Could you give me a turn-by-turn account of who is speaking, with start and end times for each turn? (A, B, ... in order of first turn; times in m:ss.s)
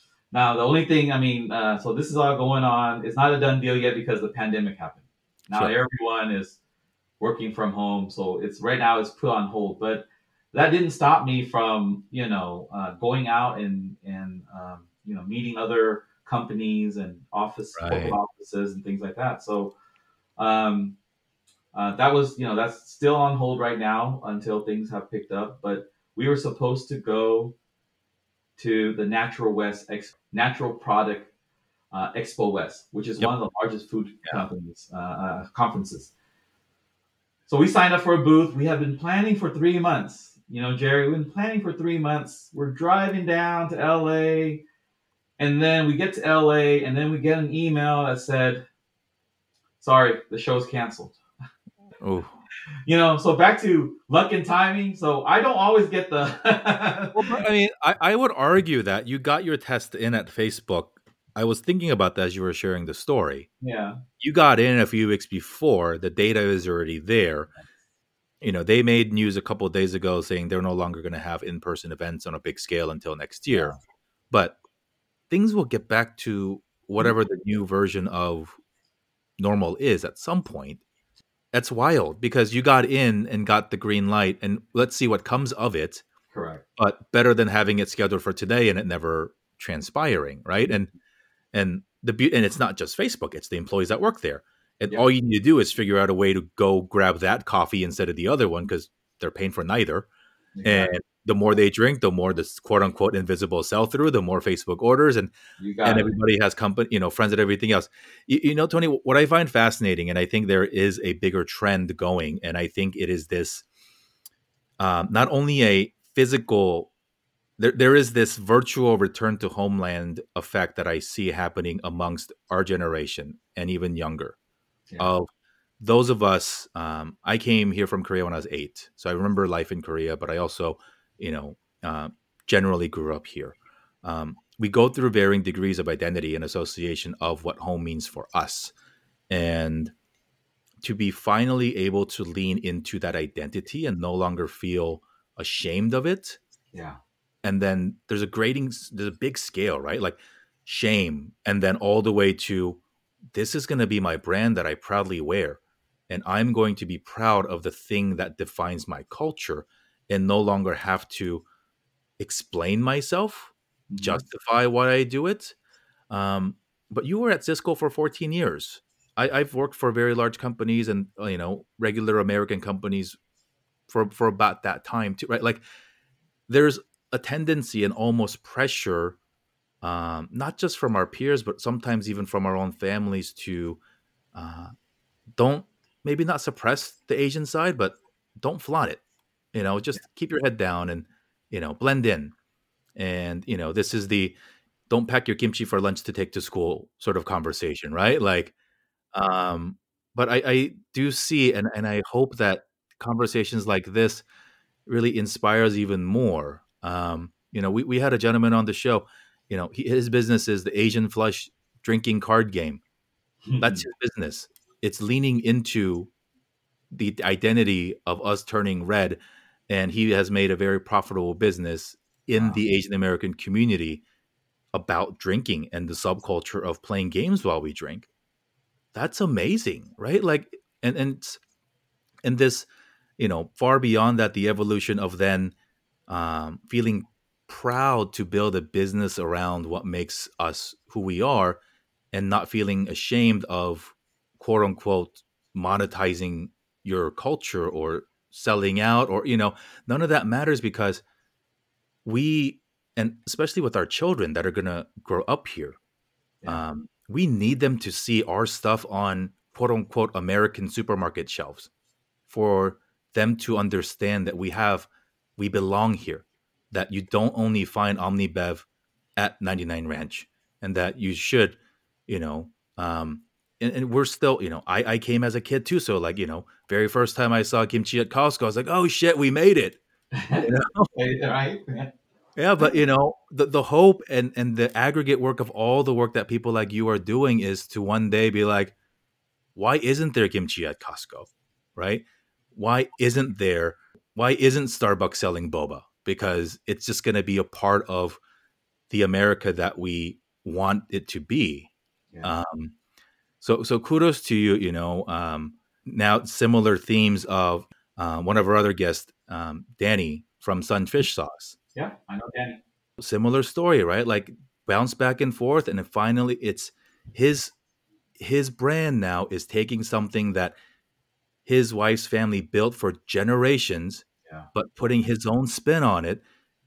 0:00.3-0:06.6 A
0:07.2-0:19.7 A
0:17.8-0:18.2 B
0:20.4-0:21.0 A
0:21.7-0:27.6 A
0:28.6-0:31.3 A
0:31.9-0:36.1 A
0:37.5-0:44.6 A
0:45.4-0:48.6 A
0:49.8-0:51.2 A
0:52.0-0:52.4 B
0:52.9-0:57.4 A
0:57.1-1:03.5 B
1:03.6-1:04.0 A
1:04.2-1:07.5 B
1:08.4-1:13.8 B
1:14.3-1:14.6 B
1:15.3-1:18.6 B
1:19.4-1:20.8 B
1:21.5-1:26.0 B
1:26.3-1:26.6 A
1:26.8-1:30.9 B
1:31.5-1:40.1 B
1:40.6-1:40.9 A
1:40.6-1:45.3 B
1:45.6-1:46.2 A
1:45.8-1:53.6 B
1:54.8-1:56.9 B
1:57.6-2:04.4 B
2:05.0-2:05.3 B
2:05.8-2:18.7 B
2:19.3-2:19.9 B
2:20.8-2:26.4 B
2:26.7-2:27.0 A
2:27.4-2:32.8 B
2:33.3-2:41.4 B
2:42.2-2:45.6 B
2:43.9-2:44.2 A
2:46.1-2:53.2 B
2:53.9-2:55.6 B
2:56.5-2:59.2 B
2:59.8-3:03.8 B
3:04.3-3:04.7 B
3:05.4-3:09.0 B
3:09.5-3:12.3 B
3:13.0-3:14.4 B
3:14.9-3:18.5 B
3:19.1-3:24.2 B
3:24.9-3:32.8 B
3:33.5-3:33.8 A
3:33.6-3:36.1 B
3:36.9-3:39.2 B
3:39.7-3:44.0 B
3:44.7-3:48.1 B
3:48.9-3:51.4 B
3:52.2-3:55.6 B
3:56.1-4:01.6 B
4:02.1-4:11.0 B
4:12.0-4:15.8 B
4:16.5-4:21.7 B
4:22.3-4:28.7 B
4:29.2-4:39.8 B
4:40.1-4:41.9 A
4:40.4-4:40.9 B
4:42.4-4:48.7 B
4:49.6-4:58.2 B
4:58.9-5:01.7 B
5:02.2-5:02.7 B
5:03.4-5:11.6 B
5:11.8-5:12.6 A
5:13.0-5:17.5 B
5:18.2-5:20.6 B
5:21.5-5:26.2 B